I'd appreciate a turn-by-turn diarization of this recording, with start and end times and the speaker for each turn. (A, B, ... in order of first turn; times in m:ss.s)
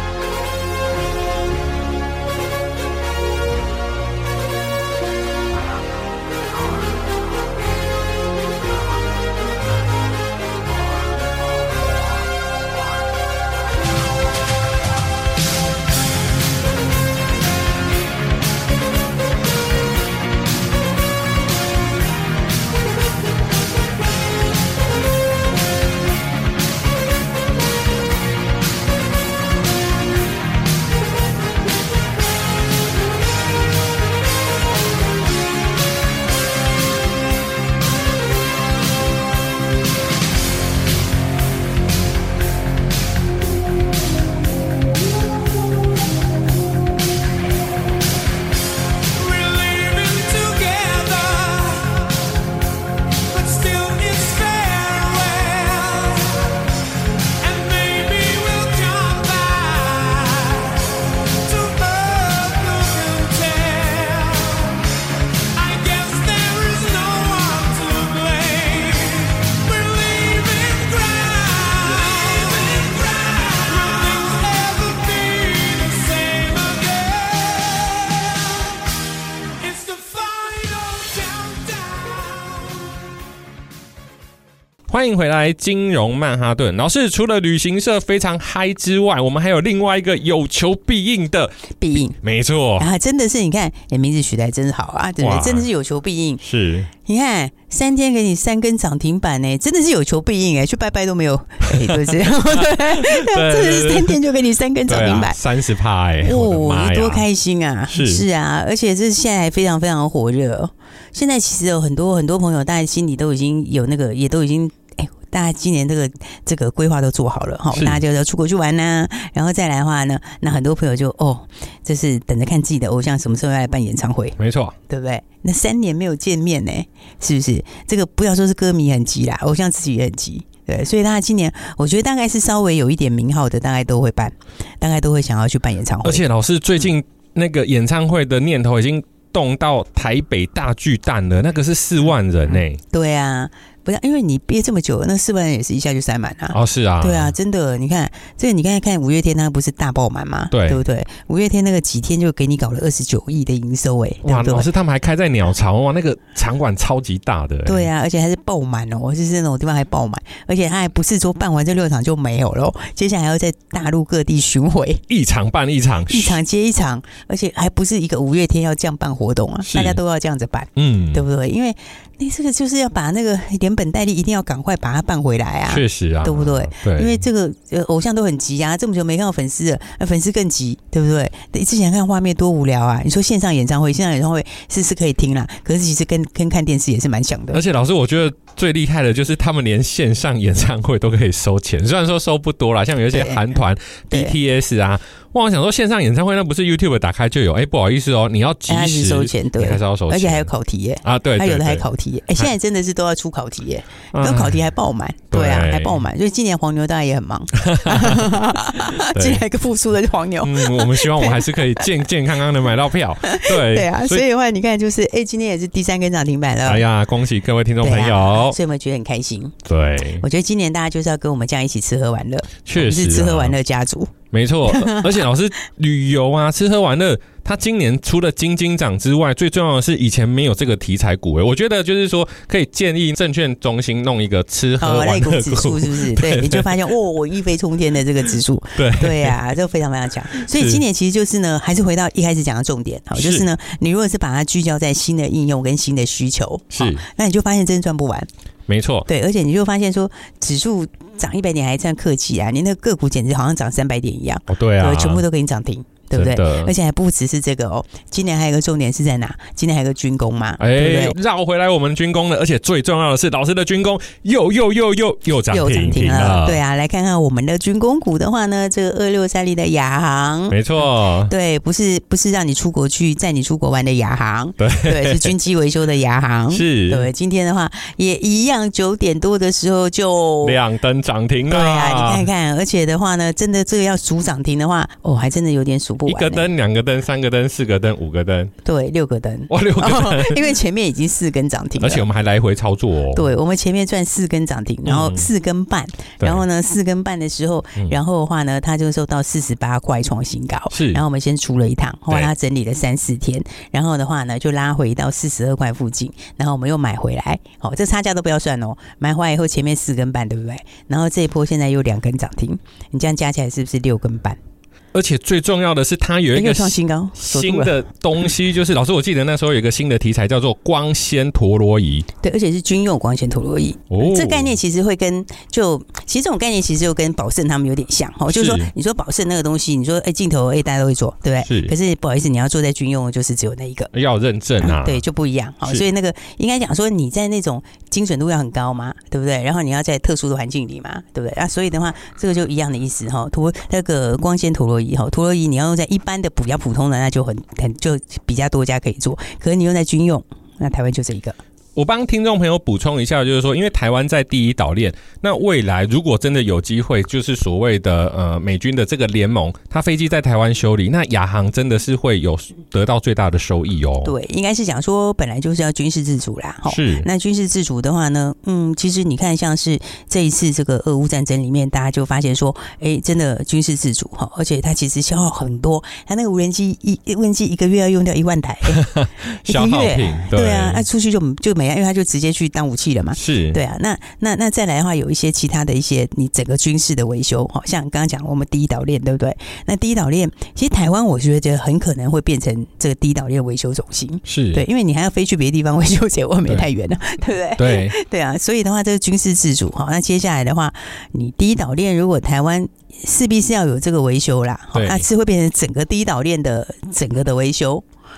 0:49.1-0:52.4 A
0:53.3-1:18.9 A
1:19.6-1:23.1 A
1:24.9-1:31.6 B
1:31.8-1:32.2 C
1:32.2-1:32.9 B
1:32.8-1:36.4 C
1:35.2-1:35.7 B
1:36.4-1:36.9 B
1:37.0-1:45.4 C
1:41.7-1:44.2 B
1:44.9-1:47.2 B
1:46.2-2:04.4 C
1:47.9-1:48.2 B
1:57.7-1:58.0 B
2:04.4-2:04.8 B
2:04.9-2:16.2 C
2:16.0-2:22.8 B
2:22.9-2:34.7 C
2:26.5-2:27.4 B
2:30.5-2:30.8 B
2:34.2-2:37.9 B
2:37.6-2:45.0 C
2:45.1-2:46.4 B
2:46.1-3:07.6 C
2:49.7-2:50.0 B
2:50.8-2:51.2 B
2:55.7-2:57.2 B
3:07.5-3:20.5 B
3:13.1-3:13.5 C
3:14.1-3:14.4 C
3:18.7-3:31.9 C
3:21.0-3:21.8 B
3:24.1-3:24.6 B
3:25.3-3:26.0 B
3:27.6-3:29.4 B
3:30.4-3:34.2 B
3:33.2-3:36.8 C
3:36.6-3:38.6 B
3:37.8-3:39.6 C
3:39.7-3:40.2 B
3:40.2-3:44.1 C
3:42.6-3:43.6 B
3:44.3-3:56.8 B
3:44.7-3:45.2 C
3:54.8-4:08.3 C
3:58.8-3:59.4 B
4:00.4-4:00.8 B
4:03.2-4:03.5 B
4:06.7-4:07.0 B
4:08.7-4:09.1 B
4:09.1-4:21.2 C
4:14.5-4:15.2 B
4:16.1-4:16.7 B
4:20.6-4:26.6 B
4:25.5-4:30.6 C
4:30.5-4:31.3 B
4:31.3-4:40.6 C
4:34.6-4:35.3 B
4:36.5-4:37.1 B
4:40.4-4:42.3 B
4:41.5-4:46.5 C
4:46.1-4:48.5 B
4:48.6-4:52.0 C
4:49.5-4:50.5 B
4:51.8-4:53.3 B
4:53.1-5:14.4 C
4:54.8-4:55.3 B
5:00.7-5:01.0 B
5:14.9-5:22.1 B
5:16.3-5:17.8 C
5:22.2-5:33.9 C
5:23.9-5:24.6 B
5:28.3-5:28.7 B
5:31.4-5:31.7 B
5:33.9-5:35.0 B
5:34.6-5:51.4 C
5:51.8-6:04.1 B
6:04.0-6:18.9 C
6:06.7-6:07.1 B
6:18.7-6:20.8 B
6:19.4-6:47.8 C
6:23.2-6:23.6 B
6:34.3-6:34.6 B
6:37.6-6:38.0 B
6:44.7-6:45.0 B